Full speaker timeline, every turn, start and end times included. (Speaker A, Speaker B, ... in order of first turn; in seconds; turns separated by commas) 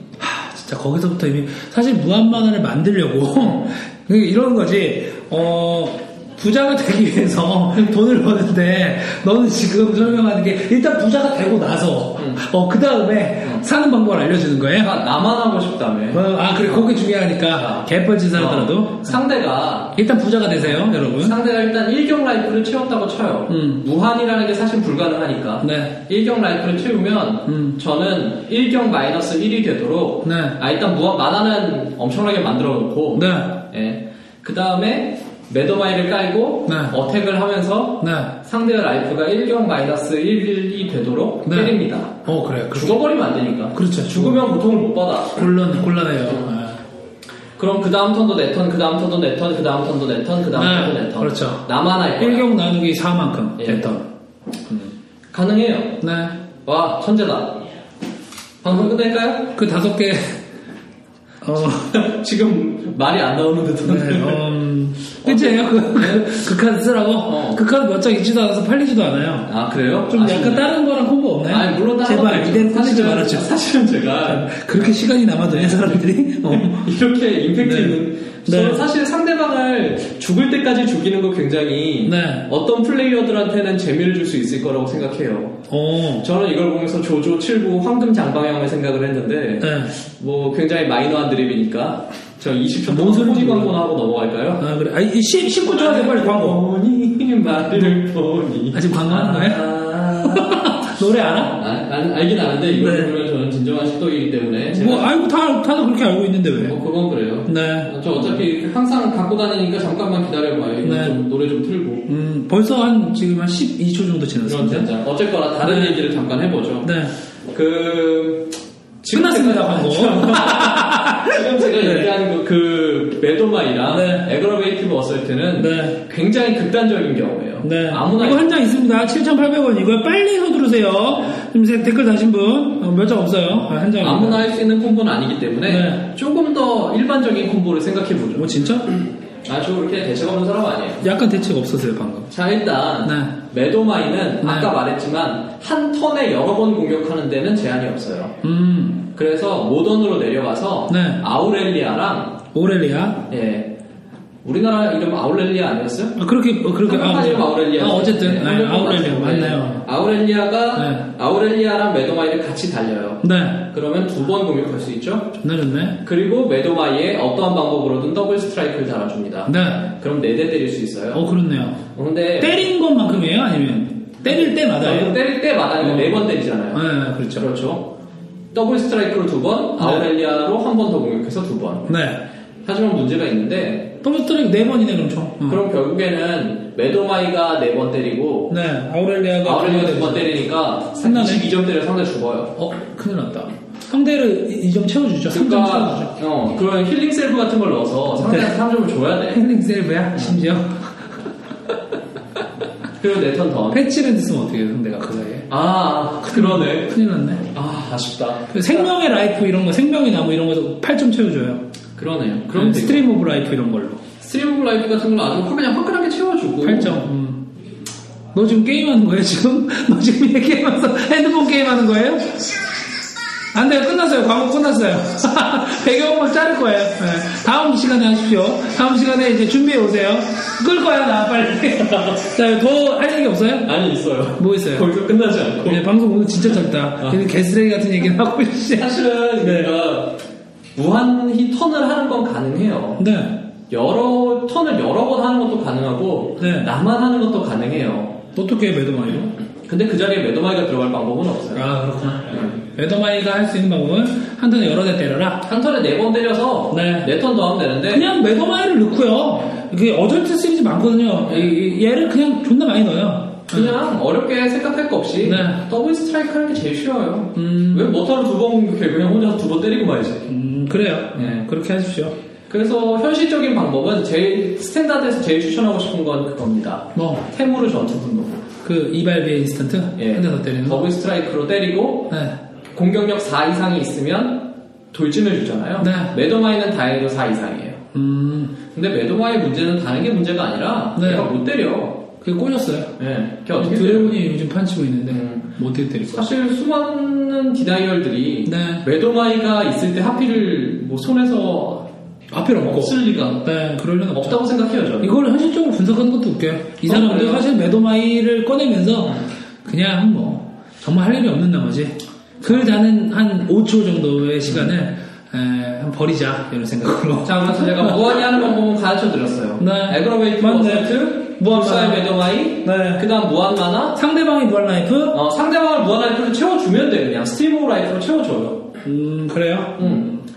Speaker A: 0.2-15.0, Speaker B: 3.4-3.6, Speaker B: 12.2-12.4, Speaker B: 14.8-20.0, Speaker A: 16.1-19.2, Speaker A: 19.9-21.4, Speaker B: 20.6-45.4, Speaker A: 23.5-23.8, Speaker A: 25.6-26.0, Speaker A: 27.5-27.8, Speaker A: 30.2-30.6, Speaker A: 33.1-33.6, Speaker A: 36.7-37.0, Speaker A: 38.0-38.4, Speaker A: 41.5-43.0, Speaker A: 43.7-44.5, Speaker A: 45.3-46.8, Speaker B: 47.6-52.5, Speaker A: 50.5-54.1, Speaker B: 53.6-53.9, Speaker B: 55.3-56.0, Speaker A: 56.0-56.4, Speaker B: 56.6-57.6, Speaker B: 58.6-59.5, Speaker A: 59.5-60.4, Speaker A: 61.4-62.0, Speaker B: 61.9-64.4, Speaker A: 63.8-69.5, Speaker B: 65.2-66.5, Speaker B: 67.2-67.6, Speaker B: 69.5-70.7, Speaker A: 70.1-73.5, Speaker B: 71.5-85.6, Speaker A: 74.2-76.9, Speaker A: 77.6-78.9, Speaker A: 82.0-82.5, Speaker A: 85.7-86.3, Speaker B: 86.2-94.6, Speaker A: 89.6-89.9, Speaker A: 92.9-93.8, Speaker A: 94.6-96.6, Speaker B: 95.7-100.8, Speaker A: 98.7-101.6, Speaker B: 101.5-105.1, Speaker A: 102.7-103.1, Speaker A: 104.7-106.8, Speaker B: 106.6-112.1, Speaker A: 107.5-108.5, Speaker A: 110.8-111.2, Speaker A: 112.1-114.9, Speaker B: 114.4-116.9, Speaker A: 115.6-116.0, Speaker A: 116.8-117.1, Speaker B: 117.5-128.5, Speaker A: 119.1-122.2, Speaker A: 123.9-124.3, Speaker A: 125.6-126.0, Speaker A: 127.6-134.4, Speaker B: 134.0-141.1, Speaker A: 135.7-136.1, Speaker A: 138.3-138.9, Speaker A: 141.0-142.3, Speaker B: 142.3-148.3, Speaker A: 143.0-143.4, Speaker A: 144.4-144.7, Speaker A: 148.4-149.1, Speaker B: 149.1-152.4, Speaker A: 150.9-151.2, Speaker A: 152.5-153.3, Speaker B: 153.3-153.7, Speaker B: 154.4-156.2, Speaker A: 156.2-159.8, Speaker B: 156.8-165.4, Speaker A: 160.8-161.1, Speaker A: 163.2-163.7, Speaker A: 165.4-166.0, Speaker B: 166.0-171.2, Speaker A: 169.5-169.9, Speaker A: 171.1-171.8, Speaker B: 171.9-172.7, Speaker A: 172.4-175.2, Speaker B: 174.2-177.9, Speaker A: 175.8-177.5, Speaker B: 178.5-181.9, Speaker A: 179.8-180.1, Speaker A: 181.9-182.2, Speaker B: 182.6-183.9, Speaker A: 184.0-185.7, Speaker B: 185.5-188.6, Speaker A: 188.5-190.4, Speaker B: 189.4-192.5, Speaker A: 191.0-191.5, Speaker A: 192.6-196.1, Speaker B: 195.3-199.4, Speaker A: 198.2-198.6, Speaker A: 199.3-201.0, Speaker B: 200.1-200.4, Speaker B: 203.0-203.8, Speaker A: 203.7-205.5, Speaker B: 205.5-206.9, Speaker A: 206.2-207.5, Speaker B: 207.5-208.9, Speaker A: 208.5-211.6, Speaker B: 212.0-213.1, Speaker A: 212.6-214.0, Speaker B: 214.2-217.0, Speaker A: 216.6-217.5, Speaker A: 218.3-222.4, Speaker A: 223.5-233.7, Speaker B: 231.8-232.2, Speaker B: 233.6-235.8, Speaker A: 234.4-234.9, Speaker A: 235.6-239.8, Speaker B: 236.4-237.2, Speaker B: 238.7-240.2, Speaker B: 240.8-243.0, Speaker A: 243.0-243.4, Speaker B: 243.7-248.2, Speaker A: 246.4-246.7, Speaker A: 248.4-249.3, Speaker B: 249.7-251.7, Speaker A: 251.5-255.5, Speaker B: 252.3-252.6, Speaker B: 255.4-258.1, Speaker A: 256.7-257.1, Speaker A: 257.9-263.8, Speaker B: 261.3-261.6, Speaker B: 263.5-270.3, Speaker A: 265.2-265.6, Speaker A: 267.3-267.9, Speaker A: 270.3-272.1, Speaker B: 271.1-271.4, Speaker B: 272.5-278.4, Speaker A: 276.9-277.3, Speaker A: 278.6-280.9, Speaker B: 280.0-282.1, Speaker A: 282.1-282.4, Speaker B: 282.7-287.8, Speaker A: 285.8-286.1, Speaker A: 287.9-288.6, Speaker B: 288.7-292.0, Speaker A: 291.0-291.4, Speaker A: 292.2-293.0, Speaker B: 293.0-294.2, Speaker A: 293.5-296.3, Speaker B: 295.1-295.5, Speaker B: 296.1-301.9, Speaker A: 298.4-298.9, Speaker A: 302.3-304.4, Speaker B: 302.5-303.5, Speaker B: 304.1-305.2, Speaker A: 305.0-318.1, Speaker B: 306.8-307.5, Speaker B: 309.0-309.3, Speaker B: 314.5-314.7, Speaker B: 317.2-324.0, Speaker A: 319.6-323.1, Speaker A: 323.9-325.2, Speaker B: 325.1-328.7, Speaker A: 328.8-330.2, Speaker B: 329.8-330.1